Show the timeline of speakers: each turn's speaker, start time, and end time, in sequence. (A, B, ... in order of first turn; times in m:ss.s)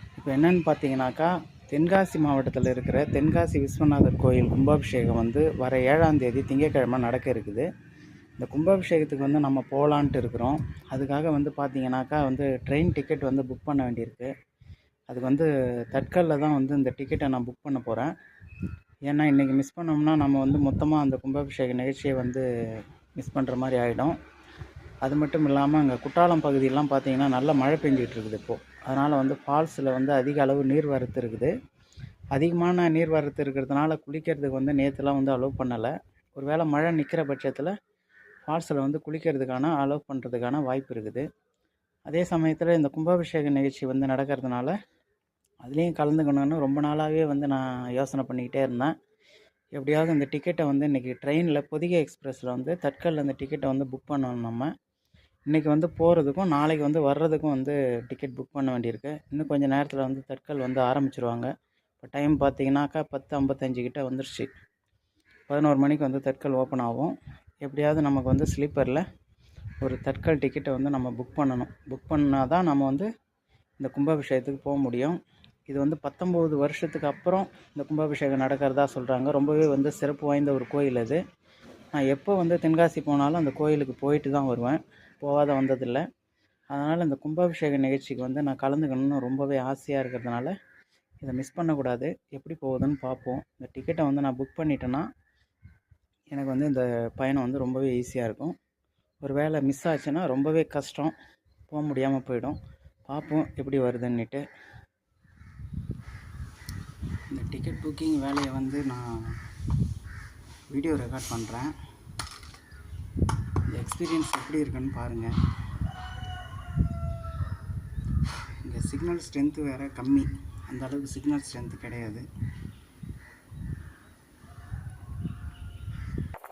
0:00.2-0:07.7 A
0:08.4-0:14.3 A
0:15.1-0:18.1 A
0:19.0-0:24.2 A
0:25.0-0:31.5 A
0:32.3-0:37.7 A
0:38.5-0:41.3 A
0:42.1-0:44.7 A
0:45.6-0:48.9 A
0:49.7-0:54.7 A
0:55.5-1:01.5 A
1:02.0-1:04.5 A
1:05.5-1:09.0 A
1:09.8-1:13.0 A
1:13.8-1:15.2 A
1:15.7-1:21.2 A
1:21.9-1:26.0 A
1:26.7-1:30.5 A
1:31.2-1:35.0 A
1:36.3-1:38.5 A
1:39.2-1:41.1 A
1:41.7-1:44.4 A
1:47.3-1:49.4 A
1:50.7-1:51.7 A
1:53.6-1:55.3 A
1:58.2-2:02.2 A